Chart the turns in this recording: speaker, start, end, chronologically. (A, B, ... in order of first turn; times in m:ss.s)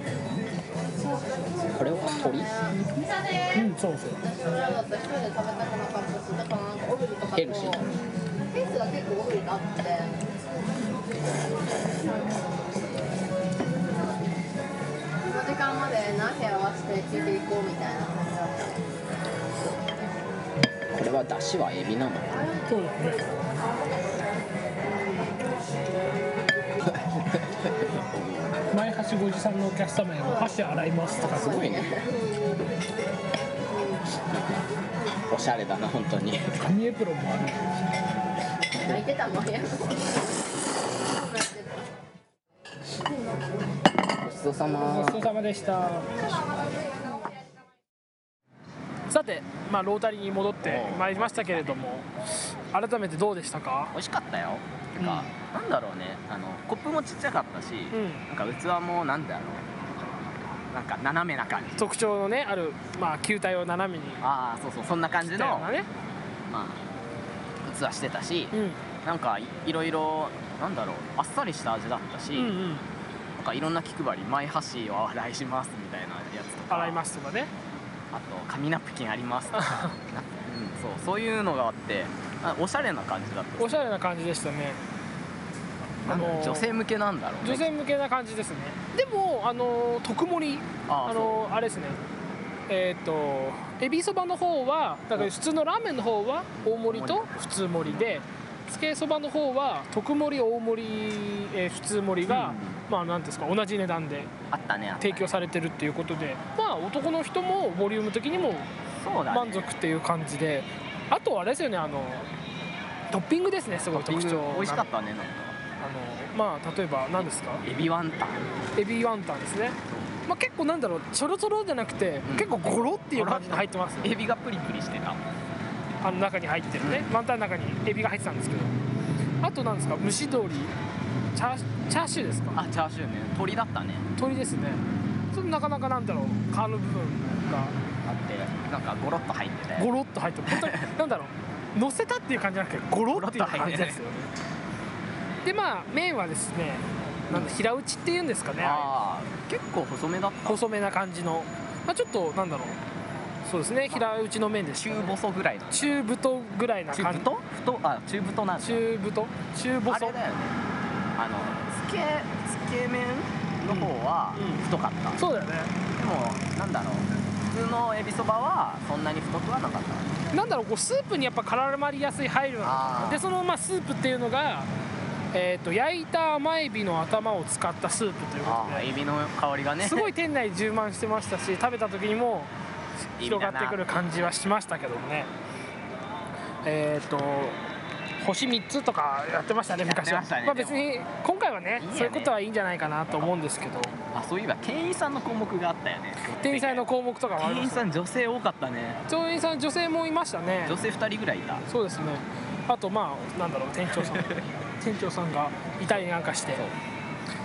0:01.1-0:03.6 A
0:01.7-0:02.8 B
0:03.5-0:04.2 C
0:04.2-0:10.2 A
0:07.3-0:07.8 B
0:12.0-0:13.0 A
0:15.2-0:18.7 A
0:20.9-0:22.4 B
0:22.4-0:22.7 A
0:22.6-0:23.2 C
0:24.8-0:25.4 A
0:26.8-0:28.6 B
0:28.7-0:31.6 C
0:30.2-0:32.7 A
0:31.2-0:31.9 B
0:33.7-0:34.0 A
0:34.3-0:34.7 B
0:35.3-0:36.6 B
0:36.6-0:37.8 C
0:38.7-0:40.3 A
0:41.0-0:41.9 A
0:44.2-0:45.2 B
0:44.8-0:46.3 C
0:49.1-0:52.1 C
0:50.6-0:51.8 B
0:52.7-0:53.9 C
0:53.9-0:59.8 B
0:55.0-0:55.3 C
0:57.9-0:58.2 C
1:00.7-1:01.9 B
1:01.8-1:04.2 C
1:04.2-1:05.7 B
1:05.2-1:05.9 C
1:06.4-1:06.8 B
1:07.6-1:12.6 B
1:08.5-1:08.8 C
1:12.3-1:12.9 C
1:13.4-1:17.0 B
1:16.7-1:17.5 C
1:18.1-1:23.9 B
1:19.5-1:19.9 C
1:23.6-1:24.8 C
1:26.0-1:27.7 B
1:26.0-1:26.8 C
1:27.4-1:32.0 C
1:30.9-1:31.4 B
1:32.7-1:44.3 C
1:36.6-1:38.1 B
1:42.2-1:42.8 B
1:44.5-1:45.4 B
1:45.0-1:48.7 C
1:49.0-1:49.7 B
1:49.3-1:52.3 C
1:53.1-1:54.9 C
1:53.9-1:55.6 B
1:55.8-1:57.6 C
1:57.2-1:58.4 B
1:58.8-2:04.2 C
1:59.8-2:00.1 B
2:02.2-2:05.2 B
2:06.0-2:08.8 C
2:06.8-2:07.1 B
2:09.4-2:10.7 C
2:11.3-2:12.6 C
2:12.5-2:14.0 B
2:14.2-2:17.8 C
2:18.0-2:19.9 B
2:19.8-2:24.3 C
2:20.5-2:20.9 B
2:23.1-2:24.0 B
2:25.4-2:28.9 C
2:28.6-2:30.6 B
2:30.5-2:32.8 C
2:33.5-2:35.2 C
2:34.8-2:36.0 B
2:35.7-2:37.3 C
2:36.9-2:38.8 B
2:38.6-2:40.2 C
2:39.9-2:40.6 B
2:41.2-2:45.2 B
2:43.6-2:44.6 C
2:45.2-2:45.7 C
2:45.9-2:50.2 B
2:50.3-2:54.7 C
2:52.6-2:53.2 B
2:55.3-2:58.9 C
2:58.4-3:00.1 B
2:59.8-3:02.5 C
3:03.2-3:05.3 C
3:03.2-3:04.3 B
3:06.6-3:07.6 C
3:08.2-3:14.0 C
3:09.7-3:10.9 B
3:11.8-3:12.4 B
3:14.0-3:16.9 B
3:16.4-3:17.9 C
3:17.4-3:19.0 B
3:19.1-3:20.8 C
3:20.6-3:21.6 B
3:21.7-3:26.6 C
3:24.0-3:24.5 B
3:26.5-3:26.8 B